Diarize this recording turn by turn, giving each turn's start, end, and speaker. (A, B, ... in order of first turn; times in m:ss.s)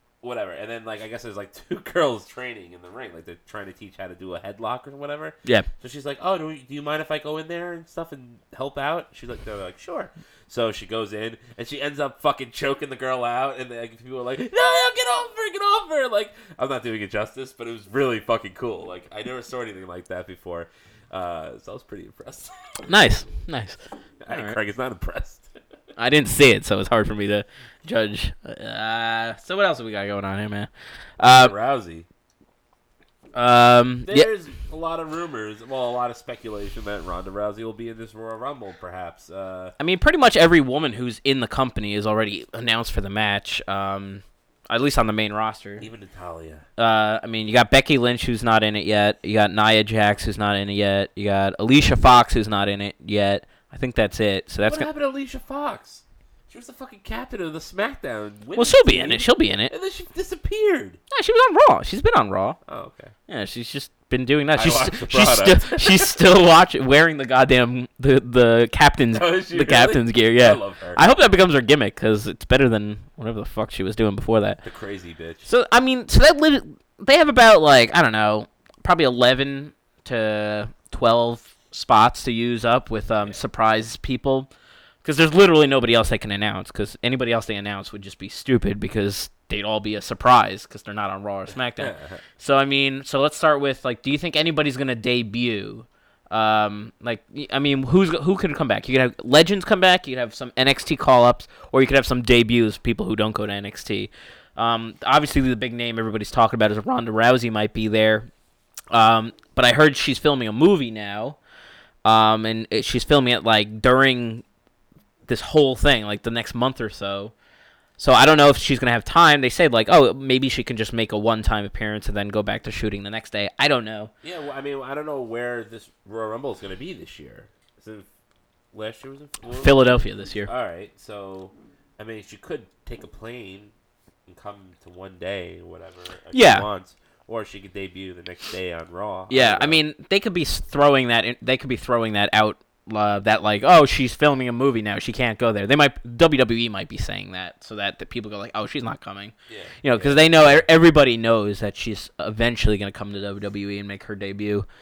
0:00.2-0:22.8 A
0:22.9-0:24.6 B
0:24.2-0:25.5 A
0:26.0-0:31.5 B
0:31.3-0:32.1 A
0:33.3-0:34.3 B
0:34.1-0:39.7 A
0:39.8-0:45.9 B
0:45.8-0:46.6 A
0:46.8-0:54.9 B
0:54.6-1:01.0 A
0:58.6-0:59.7 B
1:01.1-1:02.6 B
1:02.6-1:03.1 A
1:03.3-1:14.6 B
1:04.6-1:06.3 A
1:09.1-1:11.1 A
1:14.6-1:15.5 A
1:15.4-1:24.5 B
1:25.0-1:48.3 B
1:31.8-1:32.2 A
1:48.9-1:51.4 B
1:52.0-1:54.4 B
1:55.3-1:57.3 B
1:58.0-2:04.1 B
2:04.2-2:08.1 A
2:08.7-2:13.7 A
2:09.5-2:10.5 B
2:14.3-2:19.8 A
2:16.3-2:16.6 B
2:19.3-2:34.6 B
2:29.5-2:30.6 A